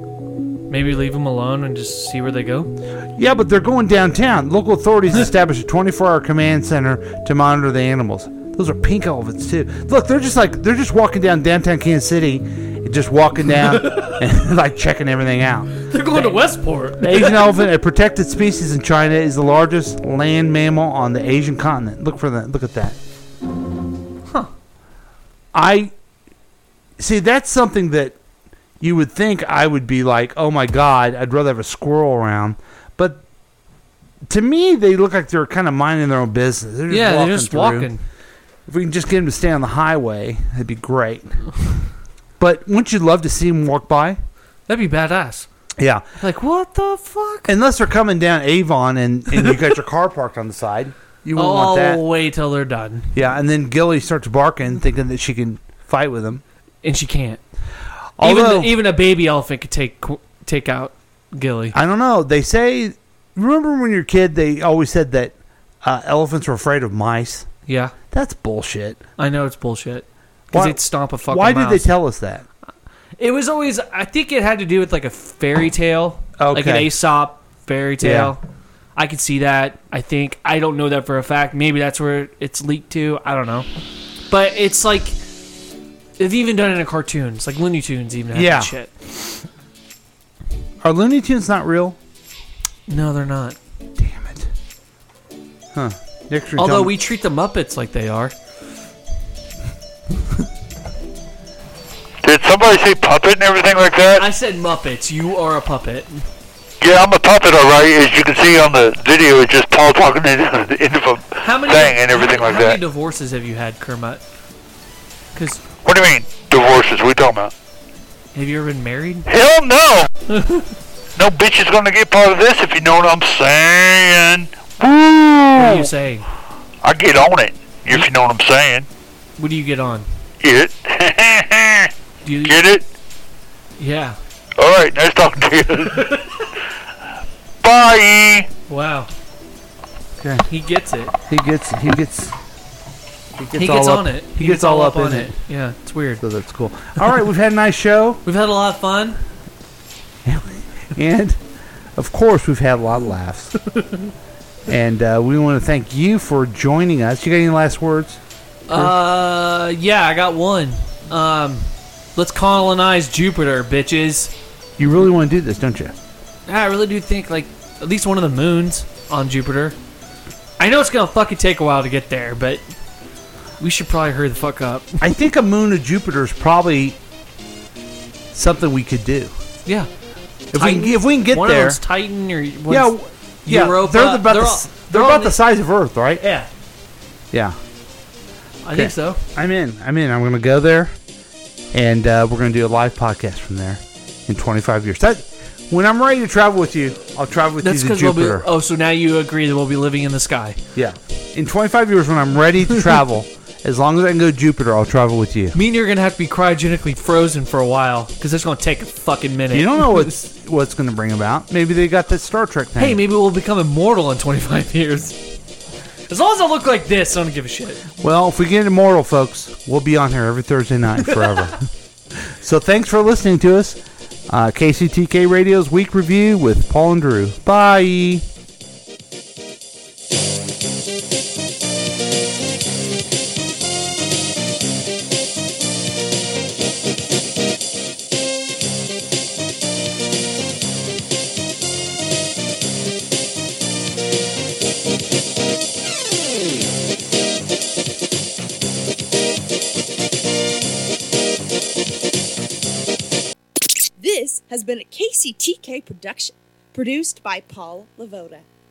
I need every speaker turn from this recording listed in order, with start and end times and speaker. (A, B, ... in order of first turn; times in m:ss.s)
0:00.7-0:02.7 A
0:03.2-0:16.4 B
0:13.5-0:14.2 A
0:15.9-0:17.6 A
0:17.0-0:23.0 B
0:25.5-0:25.9 B
0:27.0-0:28.2 B
0:28.8-0:33.2 B
0:34.3-0:37.9 B
0:36.9-0:38.0 A
0:38.7-0:41.5 B
0:42.4-0:44.2 B
0:44.7-0:45.5 A
0:45.8-0:46.0 B
0:46.2-0:47.5 A
0:47.5-0:52.0 B
0:51.4-0:53.1 A
0:53.1-0:56.4 B
0:56.8-0:57.4 A
0:58.2-0:58.7 B
0:58.2-1:01.8 A
1:01.7-1:07.5 B
1:07.7-1:07.9 A
1:08.1-1:09.0 B
1:09.2-1:11.9 A
1:10.5-1:12.4 B
1:13.2-1:18.4 A
1:16.4-1:16.9 B
1:18.0-1:18.3 B
1:19.0-1:23.7 A
1:24.3-1:25.2 A
1:26.2-1:28.9 A
1:28.3-1:28.7 B
1:30.8-1:32.0 B
1:32.9-1:33.6 A
1:34.0-1:34.5 B
1:35.7-1:36.9 B
1:36.6-1:38.4 A
1:42.2-1:44.3 C
1:44.2-1:46.3 A
1:46.8-1:52.8 C
1:51.4-1:54.2 A
1:55.4-1:55.6 A
1:55.8-1:57.5 C
1:58.4-1:59.3 A
1:59.3-2:00.1 C
2:00.3-2:00.7 A
2:01.2-2:05.9 C
2:05.6-2:06.3 A
2:06.8-2:08.9 C
2:09.4-2:10.1 A
2:10.4-2:11.9 C
2:12.2-2:12.6 A
2:12.4-2:12.8 C
2:13.8-2:14.2 A
2:14.6-2:16.1 C
2:15.9-2:16.4 A
2:17.6-2:18.5 C
2:18.7-2:19.1 A
2:20.2-2:20.5 B
2:20.5-2:21.1 A
2:21.3-2:22.4 B
2:23.4-2:25.4 B
2:23.6-2:26.2 A
2:26.2-2:28.2 B
2:28.2-2:29.2 A
2:30.2-2:31.4 B
2:32.0-2:33.5 B
2:33.7-2:34.1 A
2:34.7-2:38.9 B
2:38.7-2:44.3 A
2:44.8-2:46.0 B
2:46.5-2:49.8 A
2:50.6-2:52.6 A
2:53.6-2:55.0 A
2:55.0-2:57.0 B
2:58.3-2:59.3 B
3:00.5-3:01.8 B
3:00.5-3:02.9 A
3:02.7-3:06.2 B
3:03.5-3:05.4 A
3:06.2-3:06.5 A
3:07.3-3:07.6 B
3:08.6-3:09.2 A
3:08.7-3:11.0 B
3:11.7-3:18.5 B
3:17.6-3:20.6 A
3:20.8-3:25.6 B
3:25.6-3:30.1 A
3:29.5-3:33.0 B
3:32.8-3:35.2 A
3:36.1-3:37.8 A
3:38.0-3:48.2 B
3:41.1-3:41.5 A
4:14.0-4:18.4 D